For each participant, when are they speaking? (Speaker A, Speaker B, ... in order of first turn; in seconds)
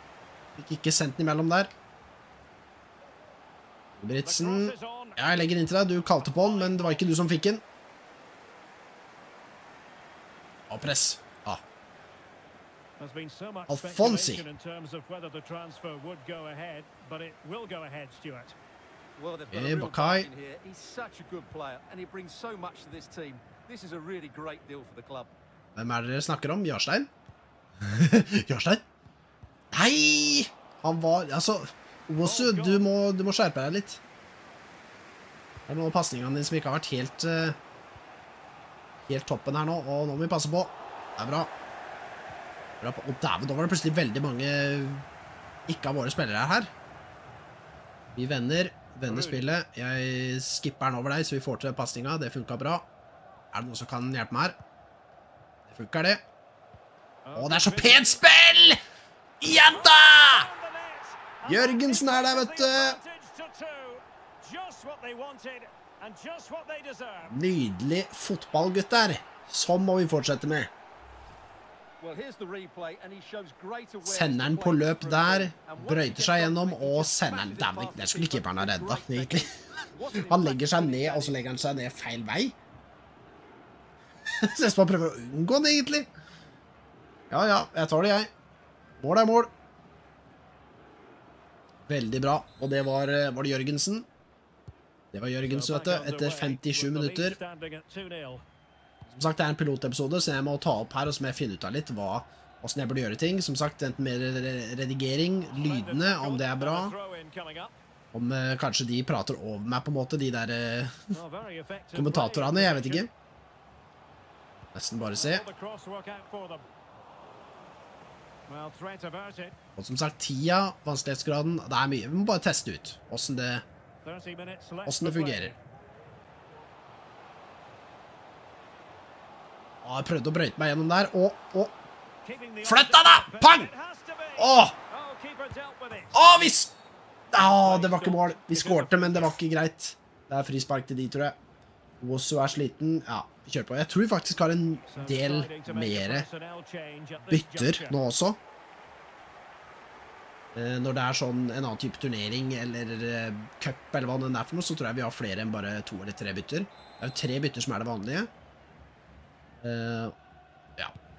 Speaker A: 0.6-1.7, 4.0-7.6, 10.7-11.6, 13.7-14.5, 19.5-20.3, 25.8-27.1, 27.8-28.8, 29.7-34.0, 35.7-37.6, 39.1-41.5, 42.8-45.0, 45.7-46.7, 48.1-52.9, 53.5-54.6, 55.7-56.2, 57.4-58.8, 59.4-60.5, 61.5-63.0, 67.3-70.7, 74.0-79.5, 80.1-82.6, 84.4-86.1, 87.3-88.3, 89.0-89.5, 91.9-94.1, 95.1-97.4, 99.1-107.0, 108.1-111.2, 111.9-113.1, 114.7-115.4, 119.8-123.7, 124.9-125.5, 129.8-131.8, 132.6-133.7, 134.4-134.8, 136.1-136.7, 137.3-141.4, 142.0-146.3, 147.2-148.4, 150.5-158.3, 159.6-160.2
Speaker B: 4.2-5.2, 6.0-7.1, 13.0-18.6, 32.2-32.9, 49.1-49.4, 57.2-58.2, 59.7-67.3, 95.4-98.4, 105.5-107.7, 111.1-113.1, 115.2-116.7, 118.5-119.5, 124.0-125.6, 132.2-136.1, 137.3-139.4, 144.9-148.0
Speaker C: 19.2-25.3, 72.0-81.4